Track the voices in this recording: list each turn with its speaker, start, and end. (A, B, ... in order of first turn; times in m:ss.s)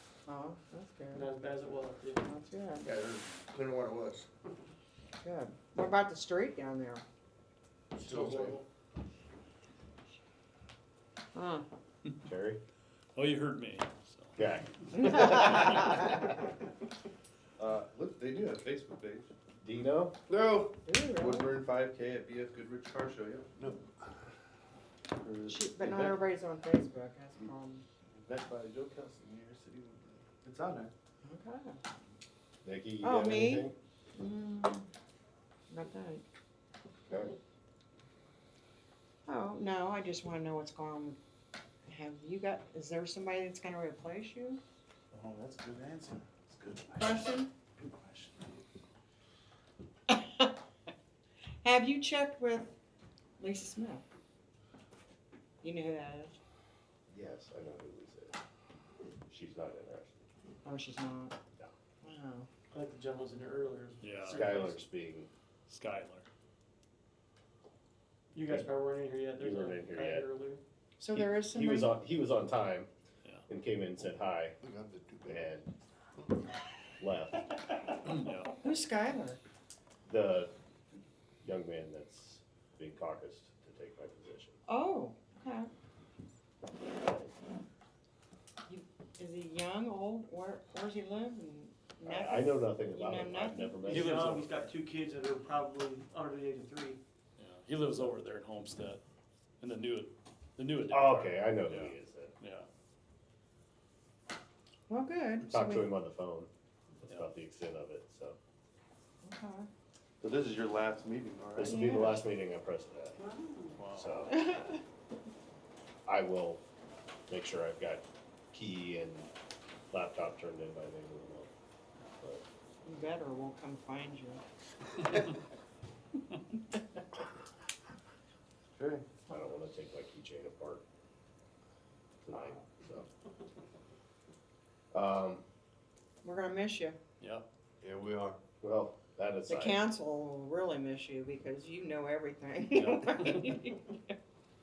0:00.2-0:01.2 A
0:01.1-0:02.3 B
0:02.2-0:02.9 A
0:02.8-0:04.3 C
0:05.2-0:07.0 A
0:07.9-0:08.6 C
0:08.0-0:08.6 B
0:11.3-0:11.6 A
0:12.2-0:12.6 D
0:13.1-0:14.4 E
0:14.4-0:15.5 D
0:15.0-0:16.3 A
0:15.1-0:15.5 E
0:17.6-0:19.3 F
0:19.6-0:20.2 D
0:20.3-0:23.9 F
0:20.8-0:21.5 A
0:25.2-0:26.2 F
0:25.5-0:27.8 A
0:28.1-0:30.9 F
0:31.2-0:31.8 A
0:32.6-0:33.7 D
0:33.0-0:34.9 A
0:35.7-0:36.2 A
0:39.2-0:41.2 A
0:41.8-0:44.6 A
0:45.1-0:48.4 F
0:47.0-0:47.5 A
0:50.1-0:50.5 A
0:51.6-0:52.8 A
0:53.4-0:54.0 A
0:55.6-0:56.4 A
0:57.1-0:58.4 D
0:59.3-1:00.2 D
1:00.6-1:01.4 A
1:02.0-1:02.5 A
1:02.7-1:04.8 B
1:04.0-1:04.4 E
1:04.2-1:05.3 D
1:05.7-1:06.3 E
1:08.3-1:10.6 B
1:09.4-1:10.3 D
1:11.0-1:11.9 A
1:11.1-1:12.9 D
1:13.5-1:14.6 D
1:14.6-1:15.5 F
1:15.2-1:15.7 D
1:17.0-1:17.5 D
1:18.1-1:18.5 E
1:18.6-1:19.4 A
1:20.0-1:20.5 D
1:21.4-1:24.6 D
1:24.7-1:25.7 A
1:26.9-1:27.3 D
1:28.6-1:34.0 A
1:32.0-1:34.6 D
1:33.9-1:34.7 E
1:33.9-1:37.0 B
1:37.4-1:39.0 E
1:39.6-1:42.7 E
1:40.9-1:42.3 D
1:44.9-1:45.9 A
1:45.5-1:46.5 D
1:47.0-1:48.4 D
1:49.2-1:49.7 A
1:50.2-1:51.8 F
1:51.6-1:53.2 D
1:51.6-1:52.2 A
1:53.7-1:54.3 E
1:53.9-1:54.5 D
1:54.3-1:54.8 A
1:56.0-1:56.6 D
1:57.3-1:59.3 D
1:59.9-2:01.5 D
2:02.2-2:02.4 D
2:02.8-2:04.4 A
2:08.7-2:09.0 F
2:09.3-2:10.8 D
2:12.2-2:13.1 D
2:14.9-2:15.4 D
2:16.2-2:17.0 A
2:17.2-2:17.4 E
2:17.8-2:18.4 F
2:18.6-2:19.8 D
2:19.5-2:24.1 A
2:22.7-2:23.5 E